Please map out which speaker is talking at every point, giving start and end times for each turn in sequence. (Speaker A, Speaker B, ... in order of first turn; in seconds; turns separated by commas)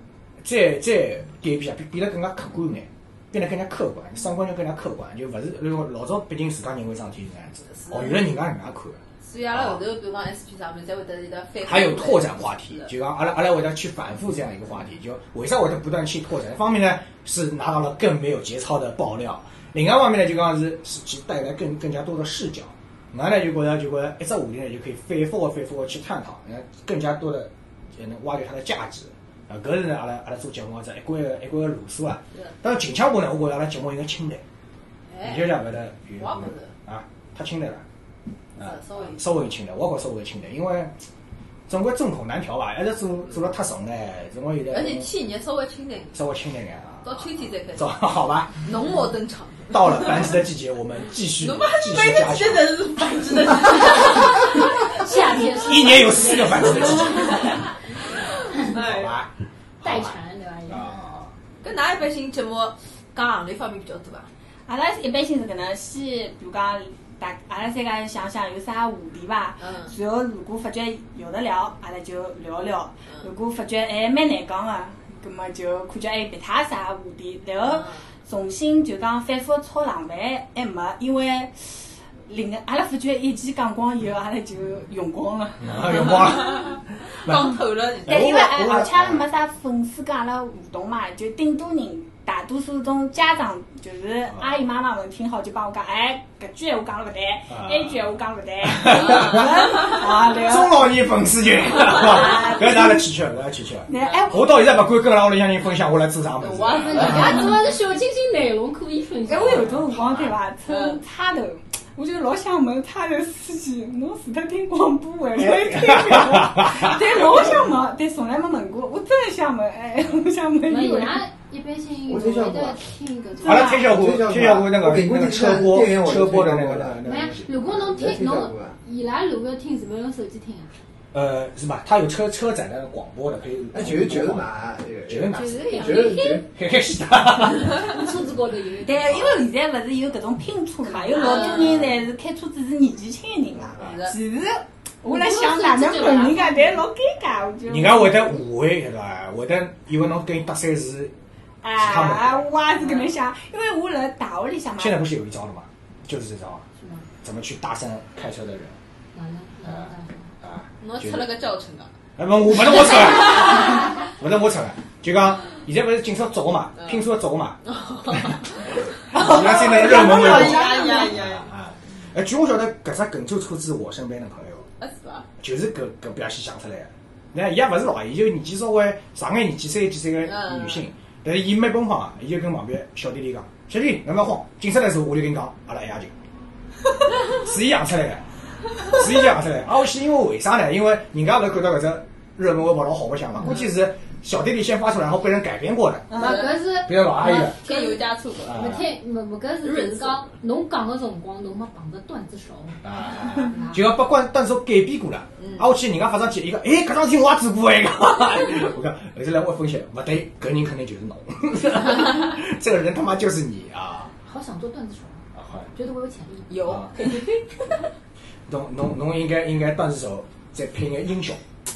Speaker A: 0.4-9.8, Speaker B: 7.7-8.2, Speaker B: 9.2-12.9, Speaker A: 11.6-34.4, Speaker B: 35.1-35.6, Speaker A: 35.2-37.8, Speaker B: 36.2-36.7, Speaker B: 38.6-39.2, Speaker A: 38.6-40.9, Speaker A: 41.7-45.1, Speaker B: 44.7-46.2, Speaker A: 46.1-48.6, Speaker B: 47.0-48.0, Speaker B: 48.6-50.4, Speaker A: 49.7-52.8, Speaker B: 51.4-54.6, Speaker A: 53.9-54.2, Speaker C: 54.9-57.4, Speaker A: 55.5-57.6, Speaker A: 58.6-59.3, Speaker B: 58.7-59.1, Speaker A: 59.8-60.1, Speaker C: 59.8-60.9, Speaker A: 60.7-61.3, Speaker B: 61.6-64.3, Speaker D: 64.7-86.2, Speaker B: 69.6-69.9, Speaker B: 77.6-78.0, Speaker A: 85.6-89.2, Speaker B: 86.0-88.3, Speaker D: 88.0-100.9, Speaker A: 97.5-98.0, Speaker A: 98.6-107.5, Speaker B: 99.2-99.7, Speaker D: 101.9-103.0, Speaker D: 103.9-104.7, Speaker B: 104.0-104.2, Speaker B: 106.4-107.5, Speaker C: 106.8-109.7, Speaker D: 109.2-121.2, Speaker A: 109.5-110.3, Speaker B: 110.7-111.0, Speaker A: 115.4-117.4, Speaker C: 120.7-123.9, Speaker E: 122.1-122.8, Speaker A: 123.4-127.9, Speaker E: 123.5-128.8, Speaker C: 127.0-130.8, Speaker A: 131.1-134.5, Speaker E: 133.7-136.5, Speaker A: 135.1-138.0, Speaker C: 135.3-136.5, Speaker C: 137.7-139.2, Speaker D: 138.8-148.3, Speaker A: 139.0-139.4, Speaker C: 140.9-141.7, Speaker B: 141.1-141.8, Speaker B: 143.8-144.1, Speaker C: 145.0-146.8, Speaker A: 147.7-151.1, Speaker D: 151.6-155.0, Speaker A: 151.8-152.5, Speaker A: 154.8-156.7, Speaker C: 156.8-157.1, Speaker A: 157.2-158.8, Speaker C: 159.1-160.3, Speaker A: 159.6-159.9, Speaker A: 160.4-161.3, Speaker B: 160.8-161.9, Speaker A: 162.2-168.4, Speaker B: 166.8-167.0, Speaker B: 167.6-168.5, Speaker B: 169.1-171.5, Speaker A: 169.1-174.7, Speaker B: 174.8-175.3, Speaker A: 175.4-186.1, Speaker B: 180.2-180.9, Speaker A: 187.3-188.2, Speaker A: 188.8-197.6, Speaker D: 196.1-196.4, Speaker B: 196.2-196.5, Speaker C: 196.2-198.0, Speaker B: 197.2-198.7, Speaker A: 198.4-198.9, Speaker C: 198.5-203.8, Speaker B: 199.6-200.3, Speaker A: 202.8-214.1, Speaker B: 205.4-205.7, Speaker C: 214.2-217.7, Speaker A: 215.3-215.7, Speaker B: 216.5-217.2, Speaker A: 216.6-216.9, Speaker A: 218.5-221.4